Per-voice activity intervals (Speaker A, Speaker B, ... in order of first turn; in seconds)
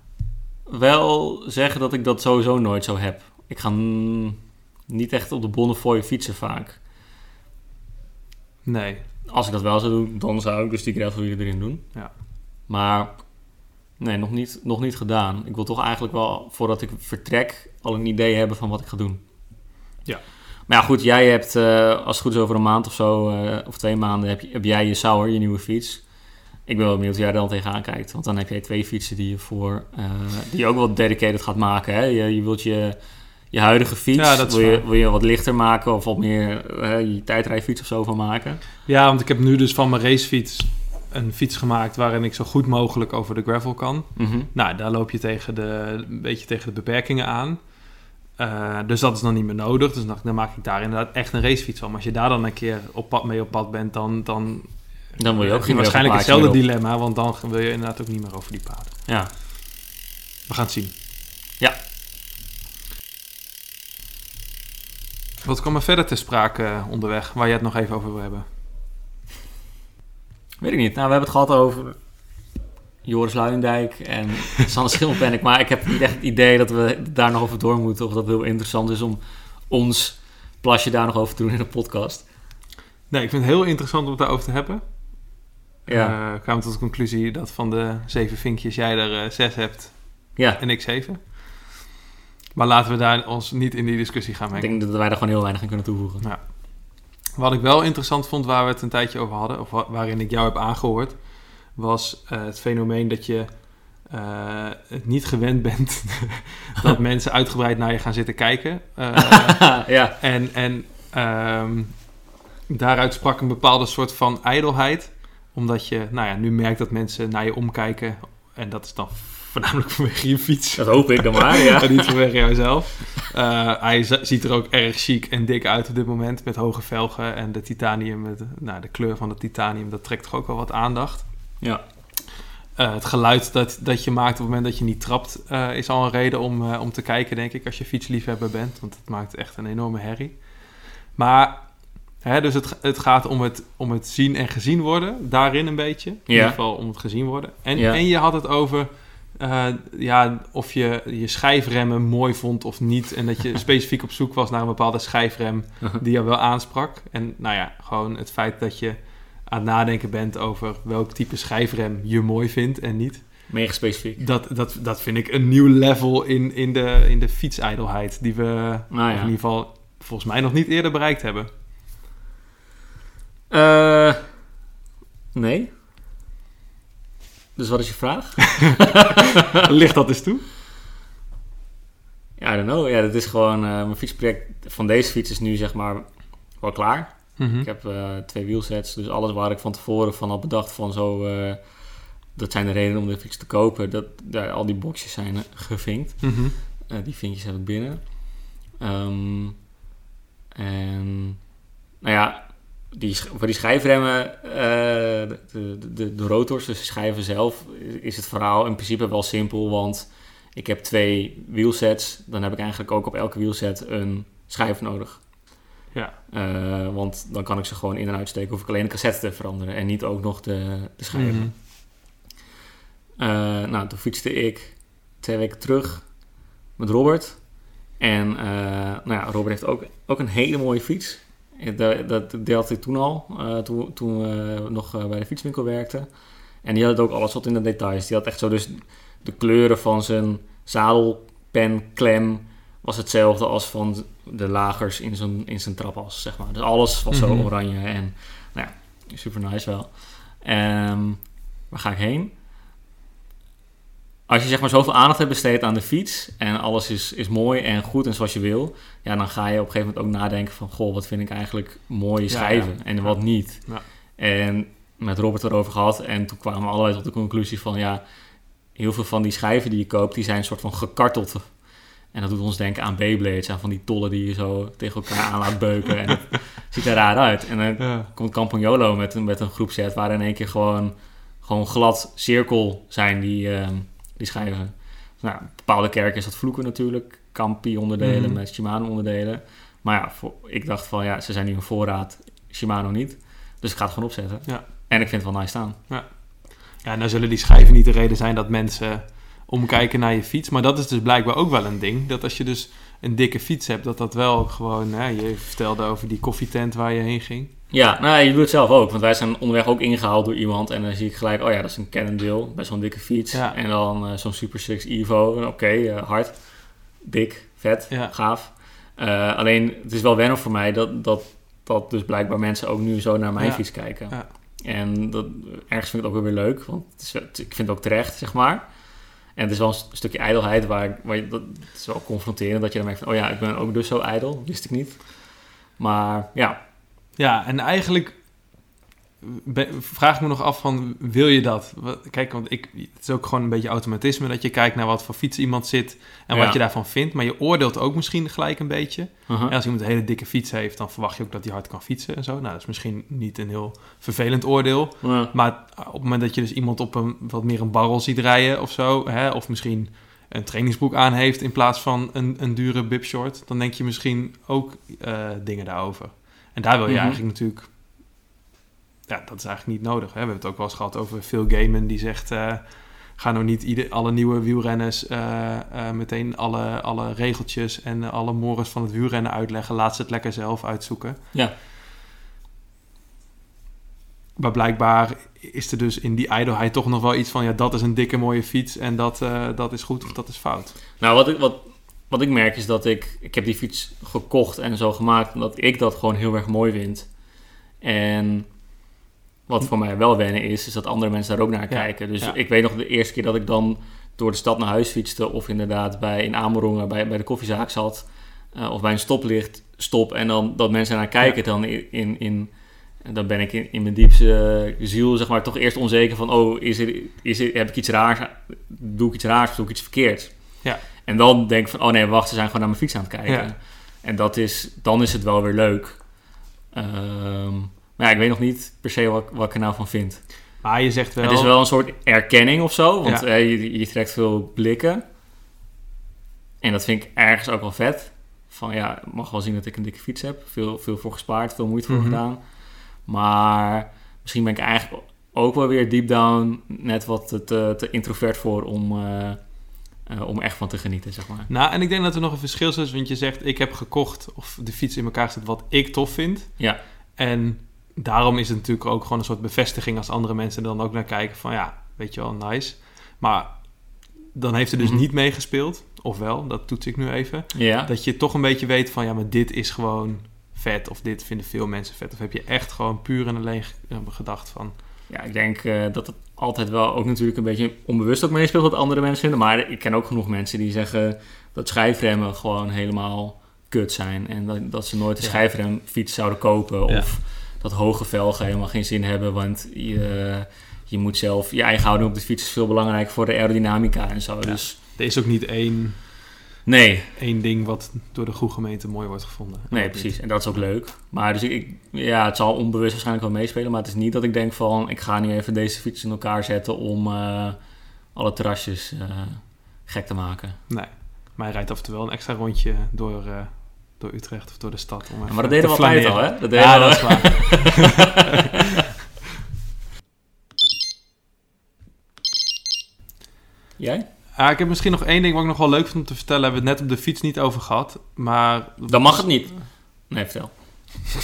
Speaker A: 0.7-6.8, 9.3-11.8, 12.7-13.3, 14.0-19.2, 20.7-26.0, 26.6-33.0, 33.5-38.6, 44.1-44.5, 55.2-56.6, 59.1-59.3, 70.6-72.0, 73.0-82.3, 85.9-86.2, 90.3-90.6, 94.5-96.2, 109.3-110.2, 120.8-122.1, 146.3-146.6, 147.7-148.0, 163.5-164.2, 168.9-169.3, 173.5-174.3, 175.3-175.7, 177.6-179.4, 182.4-191.8, 192.3-199.7, 200.5-201.4, 202.0-215.5, 216.3-221.5, 223.2-226.2, 226.8-236.1, 236.6-252.3, 254.3-268.0, 268.7-295.8, 307.7-328.6, 329.3-335.2, 335.8-336.6, 346.3-346.6, 349.3-349.5, 355.0-355.3, 366.9-367.2, 391.0-397.1, 397.8-398.5, 399.5-426.1, 426.7-430.3, 431.2-435.0, 436.6-442.5, 443.0-451.5, 467.5-467.9, 475.1-494.8, 496.6-497.1, 499.7-510.6, 515.3-518.1, 523.8-524.0, 528.9-530.6
Speaker B: 8.6-9.0, 34.1-34.8, 38.9-47.7, 48.4-58.9, 60.5-60.9, 65.4-68.4, 83.1-84.8, 85.8-91.9, 92.5-94.7, 96.2-112.1, 112.7-131.2, 132.8-163.6, 164.2-171.5, 178.6-178.9, 179.4-180.4, 187.4-187.7, 196.2-196.6, 221.1-221.5, 247.1-247.5, 262.3-263.8, 277.8-278.1, 288.0-288.4, 294.4-295.1, 295.9-307.5, 317.9-318.1, 323.4-324.3, 337.2-338.1, 339.2-367.7, 369.1-381.2, 384.4-390.8, 401.7-402.4, 423.2-423.5, 430.6-431.5, 441.9-442.2, 451.5-474.7, 494.4-496.2, 497.1-500.1, 510.7-518.4, 524.4-529.4